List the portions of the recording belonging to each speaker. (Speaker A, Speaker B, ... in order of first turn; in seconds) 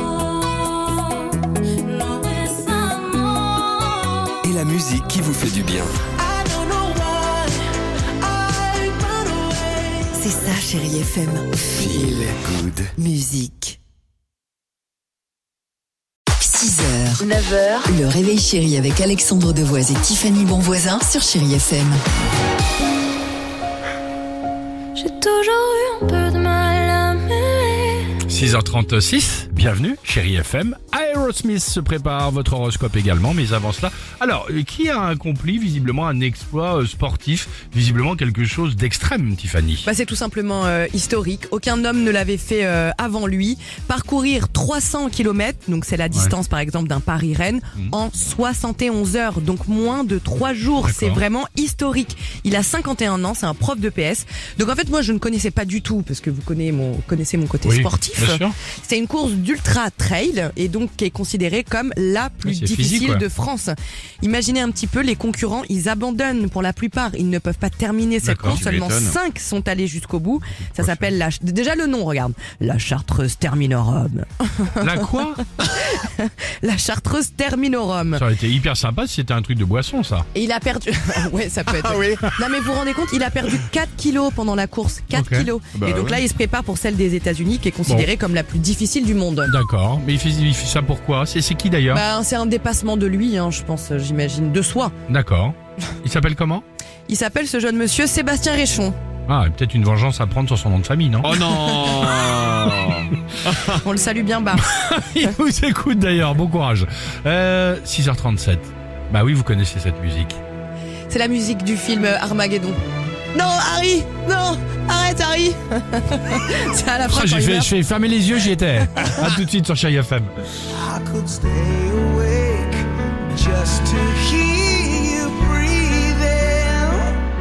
Speaker A: 1.8-4.1, 24.9-28.1
Speaker B: 4.4-5.9, 11.8-12.9
Speaker C: 6.2-7.5, 8.3-10.0, 17.3-17.8, 68.5-69.2, 85.8-86.2, 101.4-103.1, 120.7-127.1
Speaker D: 10.1-12.3, 12.9-13.8, 16.4-17.3, 17.8-22.0
Speaker E: 28.2-39.9, 50.8-51.2, 57.6-58.5, 62.4-63.2, 68.2-68.7, 70.6-71.1, 74.8-75.4, 78.2-80.3, 85.1-85.5, 89.5-92.0, 95.1-96.6, 99.3-103.0, 104.6-110.4, 117.1-120.3
Speaker F: 39.8-78.2, 80.3-89.5, 91.9-94.9, 97.1-98.9, 101.3-102.1, 103.7-104.7, 111.1-112.8, 113.3-117.7, 119.0-119.3